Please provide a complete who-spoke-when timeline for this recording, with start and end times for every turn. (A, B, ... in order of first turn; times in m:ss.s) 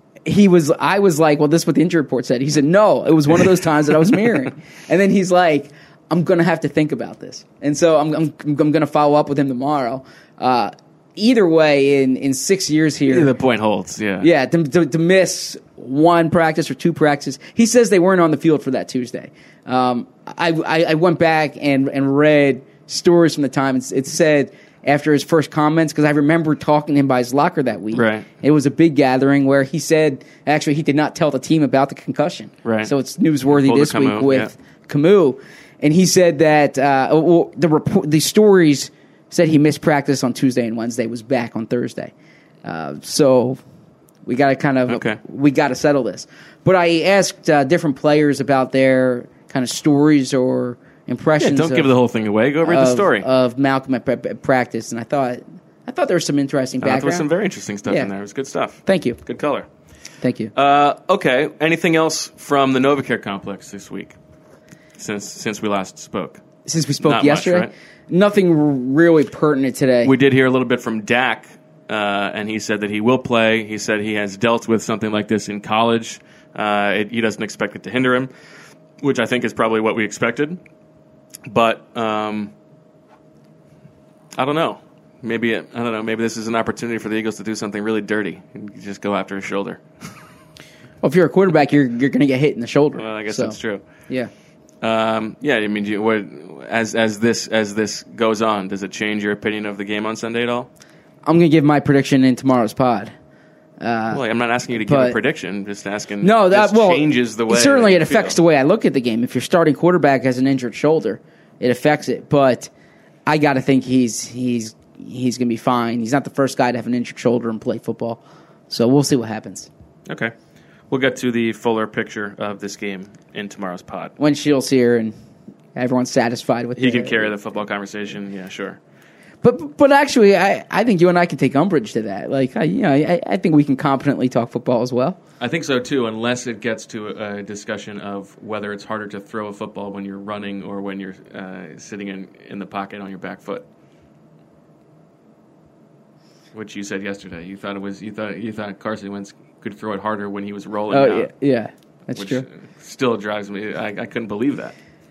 0:00.2-0:13.3 A
0:13.1-0:14.3 B
0:14.2-0:42.1 A
0:27.9-0:28.3 B
0:32.6-0:32.9 B
0:33.5-0:34.5 B
0:42.6-0:43.6 A
0:44.2-0:51.9 A
0:44.9-0:45.2 B
0:51.4-0:53.3 B
0:52.6-0:57.3 A
0:56.8-0:59.7 B
0:57.9-0:58.1 A
0:58.9-0:59.2 A
1:00.2-1:00.5 A
1:00.6-1:04.2 B
1:05.0-1:06.4 B
1:06.6-1:10.1 A
1:07.0-1:07.7 B
1:10.0-1:18.3 B
1:19.0-1:20.6 B
1:21.5-1:22.5 B
1:24.4-1:29.8 B
1:31.0-1:33.6 A
1:33.0-1:33.8 B
1:34.8-1:40.7 B
1:41.2-1:43.1 A
1:43.8-1:44.2 A
1:44.1-1:48.4 B
1:44.8-1:45.2 A
1:46.2-1:52.7 A
1:53.2-1:59.7 A
2:00.1-2:00.3 B
2:00.9-2:04.1 B
2:04.2-2:05.1 A
2:05.8-2:07.3 A
2:06.8-2:08.8 B
2:09.4-2:15.2 A
2:15.4-2:23.6 B
2:26.5-2:31.3 B
2:30.9-2:32.4 A
2:32.2-2:34.8 B